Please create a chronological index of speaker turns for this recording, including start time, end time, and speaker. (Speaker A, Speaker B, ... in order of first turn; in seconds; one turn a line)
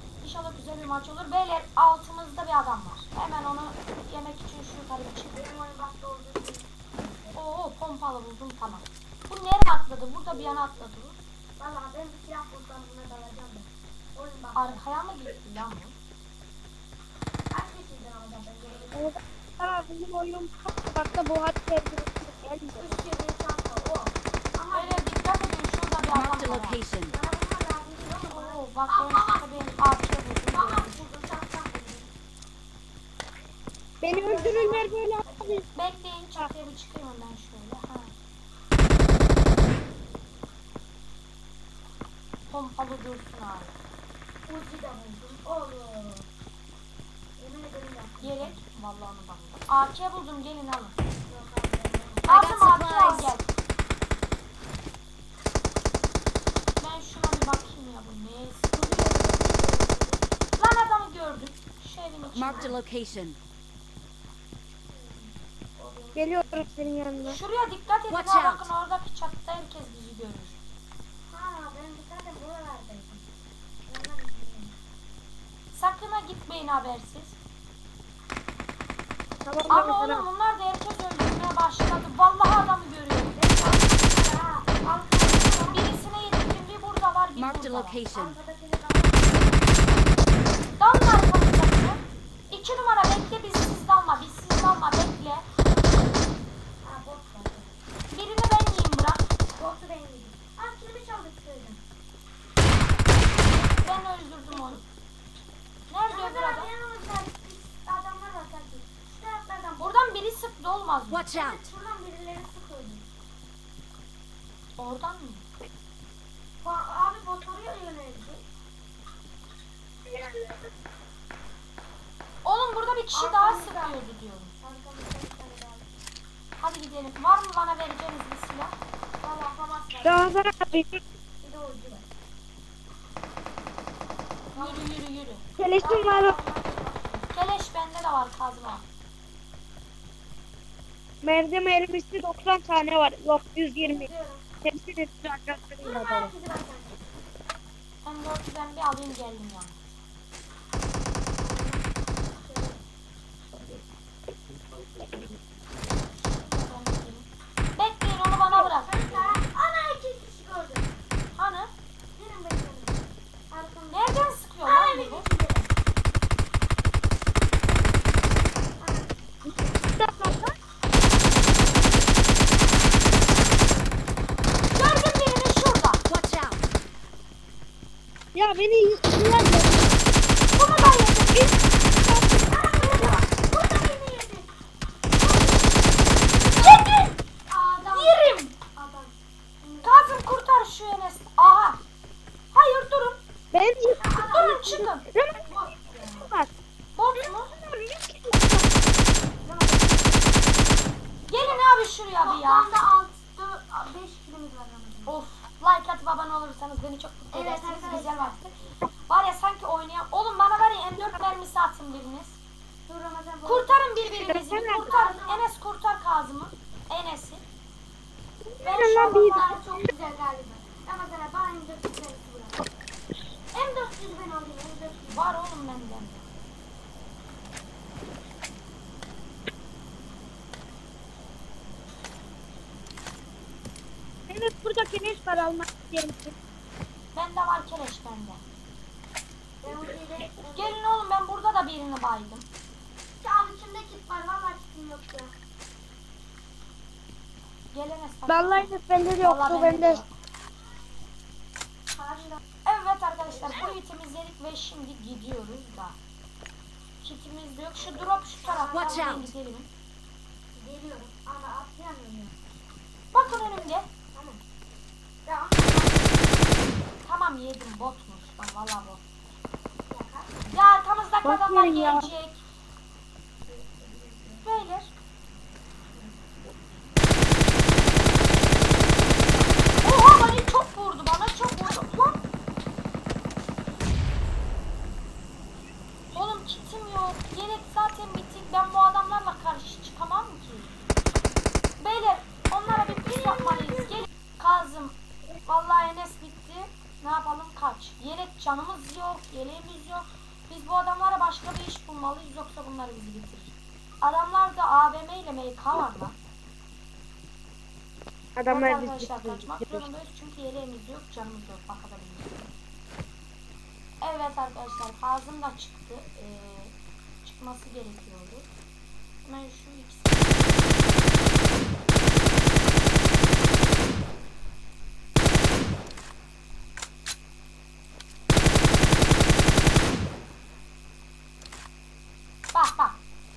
Speaker A: 0.2-5.5
Speaker B: 5.3-7.4
Speaker A: 7.3-11.2
Speaker B: 11.6-14.8
Speaker A: 14.6-16.0
Speaker B: 17.5-19.1
Speaker C: 18.9-22.9
Speaker B: 22.8-25.1
Speaker A: 24.7-26.8
Speaker D: 26.1-27.1
Speaker B: 27.1-29.5
Speaker A: 28.3-31.1
Speaker B: 30.5-32.1
Speaker C: 34.0-35.6
Speaker B: 34.1-35.7
Speaker A: 35.7-38.1
Speaker A: 42.5-43.8
Speaker B: 44.5-46.3
Speaker B: 47.4-48.6
Speaker A: 48.2-51.0
Speaker B: 51.3-52.3
Speaker A: 52.3-53.5
Speaker D: 52.3-53.3
Speaker A: 56.8-59.0
Speaker B: 58.7-60.3
Speaker A: 60.6-62.8
Speaker D: 62.4-63.4
Speaker B: 62.5-62.8
Speaker B: 64.9-66.9
Speaker C: 66.2-67.4
Speaker A: 67.2-70.6
Speaker D: 68.1-68.7
Speaker B: 71.3-73.3
Speaker B: 73.9-74.8
Speaker A: 75.7-77.4
Speaker C: 79.5-80.3
Speaker A: 79.7-83.4
Speaker B: 83.4-85.9
Speaker A: 85.7-88.0
Speaker D: 87.4-88.4
Speaker B: 88.1-89.8
Speaker A: 90.8-95.5
Speaker B: 96.8-97.7
Speaker A: 98.1-99.2
Speaker B: 99.6-101.8
Speaker A: 103.6-104.8
Speaker B: 103.7-104.0
Speaker A: 105.9-106.7
Speaker B: 106.1-110.2
Speaker A: 109.8-111.3
Speaker D: 111.1-111.6
Speaker B: 111.3-113.1
Speaker A: 114.8-115.5
Speaker B: 116.6-118.4
Speaker A: 122.5-124.5
Speaker B: 123.1-124.0
Speaker B: 124.6-125.9
Speaker A: 126.6-128.8
Speaker B: 129.2-130.4
Speaker C: 130.0-131.0
Speaker B: 131.4-132.1
Speaker B: 134.5-134.9
Speaker A: 134.6-135.4
Speaker C: 135.6-136.4
Speaker B: 135.7-137.3
Speaker A: 137.3-138.9
Speaker C: 141.2-144.1
Speaker B: 143.8-144.4
Speaker C: 144.7-146.3
Speaker B: 145.8-147.0
Speaker A: 148.0-149.8
Speaker B: 151.4-151.9
Speaker B: 152.4-152.8
Speaker A: 156.2-159.4
Speaker B: 158.6-160.9
Speaker A: 161.3-161.7
Speaker B: 162.2-165.7
Speaker A: 163.9-165.3
Speaker B: 168.8-169.1
Speaker C: 169.4-170.5
Speaker A: 174.7-176.0
Speaker D: 176.1-176.6
Speaker C: 178.3-180.0
Speaker A: 180.5-181.5
Speaker C: 182.1-182.4
Speaker B: 182.5-184.5
Speaker B: 185.2-185.8
Speaker B: 186.6-186.9
Speaker A: 186.6-187.2
Speaker B: 187.5-190.1
Speaker A: 187.9-188.5
Speaker A: 189.8-191.8
Speaker A: 192.5-193.2
Speaker C: 193.5-195.5
Speaker B: 194.0-194.6
Speaker A: 194.2-195.1
Speaker B: 195.5-196.3
Speaker C: 196.1-196.5
Speaker A: 196.9-197.6
Speaker C: 197.6-198.6
Speaker B: 199.4-200.5
Speaker A: 201.3-202.7
Speaker B: 201.4-201.6
Speaker B: 202.2-205.2
Speaker A: 205.1-208.6
Speaker B: 207.3-208.4
Speaker A: 209.1-212.4
Speaker B: 212.9-213.8
Speaker A: 213.4-217.4
Speaker C: 214.1-214.9
Speaker B: 214.8-215.5
Speaker C: 218.6-219.6
Speaker A: 218.6-219.7
Speaker B: 218.8-222.7
Speaker B: 223.5-225.4
Speaker A: 225.1-226.3
Speaker C: 234.3-236.3
Speaker A: 237.1-238.4
Speaker B: 239.6-240.8
Speaker A: 240.6-242.5
Speaker B: 243.2-245.3
Speaker A: 247.7-250.1
Speaker C: 248.3-250.0
Speaker B: 251.9-252.4
Speaker A: 252.7-256.0
Speaker A: 257.0-259.7
Speaker B: 257.8-259.2
Speaker D: 258.7-259.3
Speaker B: 260.6-262.3
Speaker A: 263.1-263.9
Speaker B: 263.2-264.4
Speaker B: 265.2-266.5
Speaker A: 267.0-269.0
Speaker B: 269.9-270.7
Speaker A: 270.5-272.4
Speaker C: 271.2-272.1
Speaker B: 273.5-274.6
Speaker A: 274.4-274.9
Speaker A: 279.8-282.0
Speaker A: 286.1-290.7
Speaker A: 291.8-306.2
Speaker B: 292.8-293.8
Speaker C: 308.4-309.9
Speaker A: 308.5-312.5
Speaker A: 314.0-318.5
Speaker A: 319.2-320.9
Speaker A: 332.5-333.0